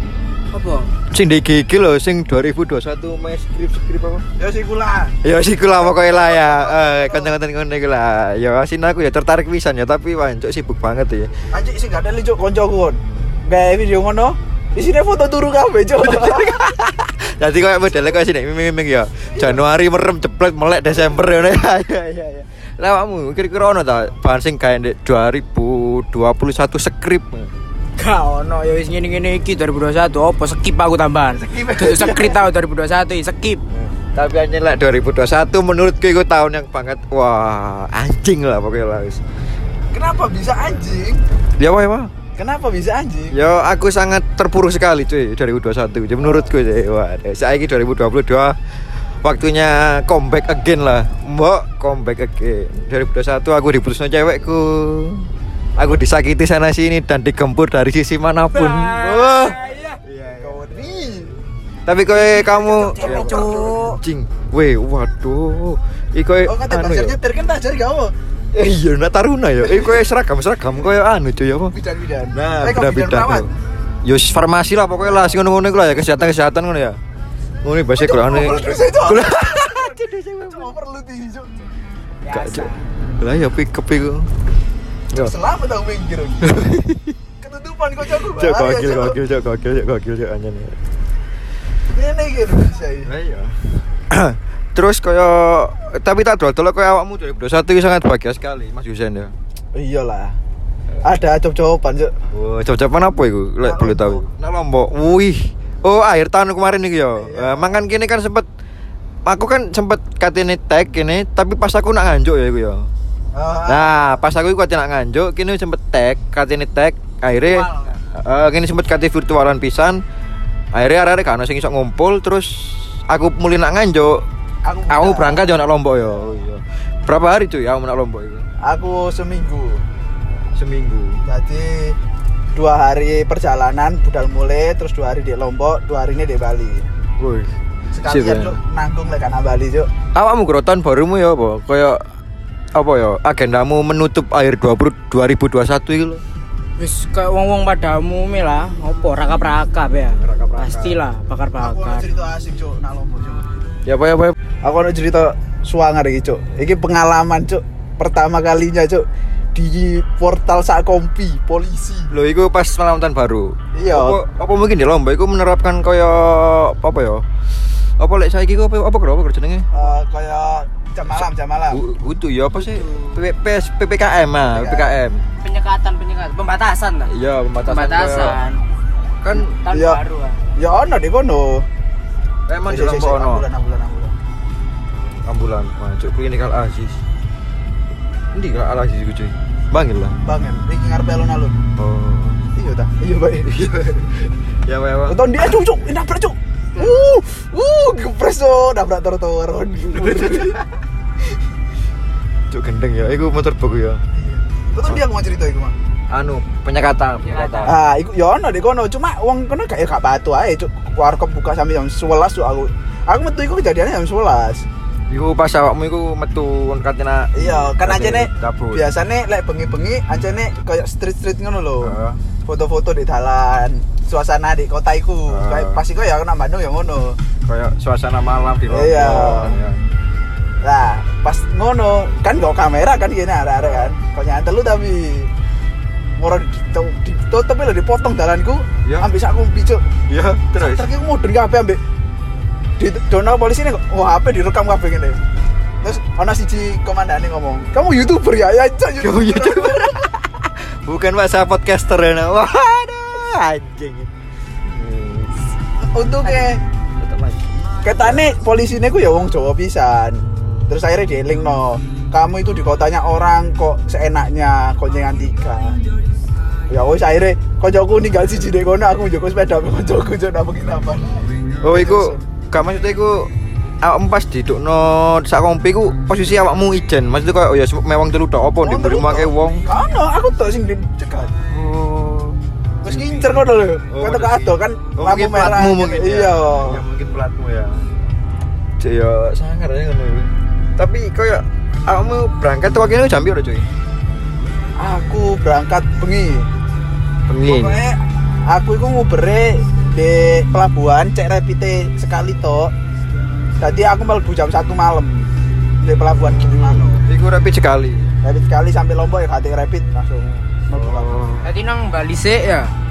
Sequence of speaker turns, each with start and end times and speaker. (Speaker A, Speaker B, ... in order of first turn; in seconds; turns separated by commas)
Speaker A: 0.5-0.9, Speaker B: 1.1-4.2, Speaker C: 4.4-7.3, Speaker B: 5.2-11.3, Speaker C: 11.5-16.7, Speaker B: 16.0-27.5, Speaker C: 19.3-19.6, Speaker A: 28.0-33.6, Speaker B: 31.3-32.4, Speaker B: 34.1-39.2, Speaker C: 39.9-41.2, Speaker B: 41.6-42.1, Speaker C: 42.4-43.4, Speaker B: 43.3-60.8, Speaker A: 58.5-60.0, Speaker C: 60.4-61.4, Speaker B: 61.9-67.2, Speaker A: 62.2-64.0, Speaker C: 62.9-63.7, Speaker C: 66.4-68.1, Speaker B: 68.5-71.7, Speaker C: 69.6-70.0, Speaker C: 71.7-73.5, Speaker B: 72.3-73.5, Speaker B: 74.0-77.0, Speaker C: 75.0-75.5, Speaker B: 77.6-80.7, Speaker C: 77.9-81.7, Speaker A: 82.2-82.8, Speaker B: 82.3-84.3, Speaker C: 85.2-86.5, Speaker B: 86.4-87.2, Speaker C: 87.4-89.2, Speaker B: 88.2-90.8, Speaker C: 91.9-93.1, Speaker B: 93.0-99.3, Speaker C: 99.7-100.4, Speaker C: 101.0-102.1, Speaker B: 102.3-108.5, Speaker C: 103.6-104.2, Speaker C: 107.2-107.8, Speaker B: 109.2-112.9, Speaker C: 113.3-114.2, Speaker B: 113.7-120.0, Speaker A: 117.4-118.0, Speaker B: 120.7-124.2, Speaker C: 124.6-125.5, Speaker B: 124.9-128.5, Speaker C: 128.6-129.8, Speaker B: 130.5-131.2, Speaker C: 131.2-131.9, Speaker C: 132.5-136.8, Speaker B: 137.2-137.5, Speaker C: 137.9-139.9, Speaker B: 138.1-138.6, Speaker B: 140.1-142.0, Speaker B: 142.7-146.2, Speaker A: 146.8-152.1, Speaker B: 150.1-151.0, Speaker C: 151.6-153.4, Speaker B: 153.8-154.4, Speaker C: 154.6-162.1, Speaker B: 162.1-167.2, Speaker C: 163.7-164.2, Speaker B: 168.0-169.7, Speaker C: 169.7-171.8, Speaker B: 171.7-175.2, Speaker A: 172.6-173.2, Speaker C: 174.5-174.9, Speaker A: 175.4-177.1, Speaker B: 177.1-178.4, Speaker A: 177.6-178.6, Speaker B: 179.2-179.5, Speaker A: 179.4-180.4, Speaker C: 179.7-180.0, Speaker C: 180.6-181.7, Speaker B: 182.5-183.4, Speaker C: 182.7-184.1, Speaker B: 184.9-187.0, Speaker B: 188.3-190.2, Speaker C: 190.2-191.6, Speaker B: 191.8-192.4, Speaker C: 192.5-193.5, Speaker B: 193.4-195.3, Speaker C: 195.1-200.6, Speaker B: 199.8-200.6, Speaker B: 202.5-204.0, Speaker C: 204.1-205.7, Speaker B: 206.1-207.8, Speaker A: 207.2-207.7, Speaker C: 207.7-214.7, Speaker B: 215.1-218.8, Speaker C: 217.3-227.2, Speaker B: 221.8-222.2, Speaker B: 225.3-225.8, Speaker B: 227.5-229.8, Speaker C: 228.7-229.6, Speaker C: 230.6-235.3, Speaker C: 236.2-239.9, Speaker B: 240.1-240.8, Speaker C: 240.6-241.8, Speaker C: 242.8-245.2, Speaker C: 245.8-250.0, Speaker B: 249.0-254.1, Speaker B: 254.7-255.3, Speaker C: 255.8-256.6, Speaker B: 257.0-258.2, Speaker C: 257.8-265.8, Speaker B: 260.3-260.7, Speaker C: 266.7-272.2, Speaker B: 271.6-279.7, Speaker C: 278.6-281.4, Speaker B: 281.5-283.3, Speaker C: 282.8-286.8, Speaker B: 283.9-288.0, Speaker B: 288.8-293.7, Speaker C: 294.8-296.5, Speaker B: 297.3-297.8, Speaker C: 297.4-302.7, Speaker C: 303.6-305.3, Speaker C: 305.8-307.0, Speaker B: 306.3-308.1, Speaker C: 308.2-311.1, Speaker B: 310.7-311.5, Speaker A: 311.4-312.7